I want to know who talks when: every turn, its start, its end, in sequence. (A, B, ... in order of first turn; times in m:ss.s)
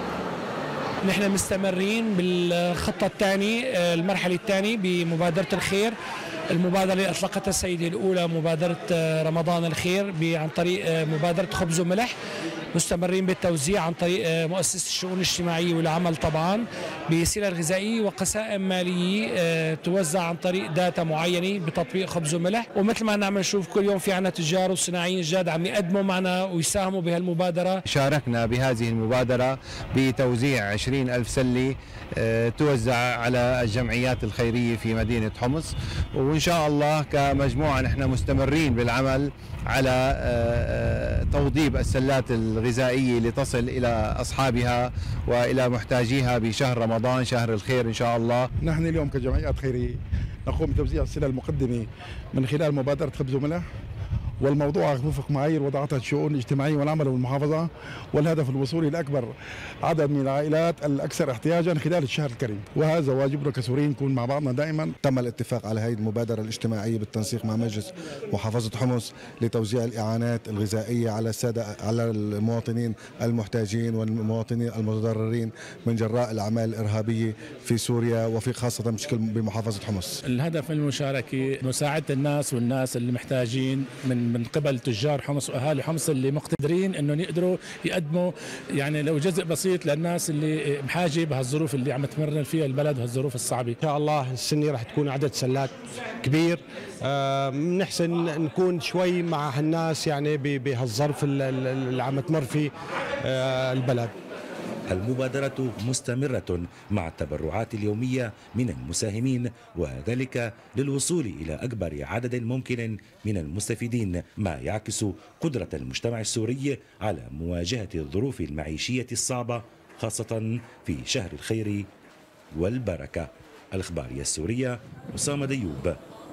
0:01.0-0:05.9 A
0:06.5-0:12.1 A
0:12.7-0:27.8 A
0:27.9-0:48.5 B
0:48.6-0:53.6 C
0:54.4-0:59.3 C
0:59.8-1:04.9 C
1:05.0-1:20.2 D
1:20.2-1:33.8 E
1:33.8-1:44.1 F
1:44.9-2:01.8 G
2:02.6-2:06.0 G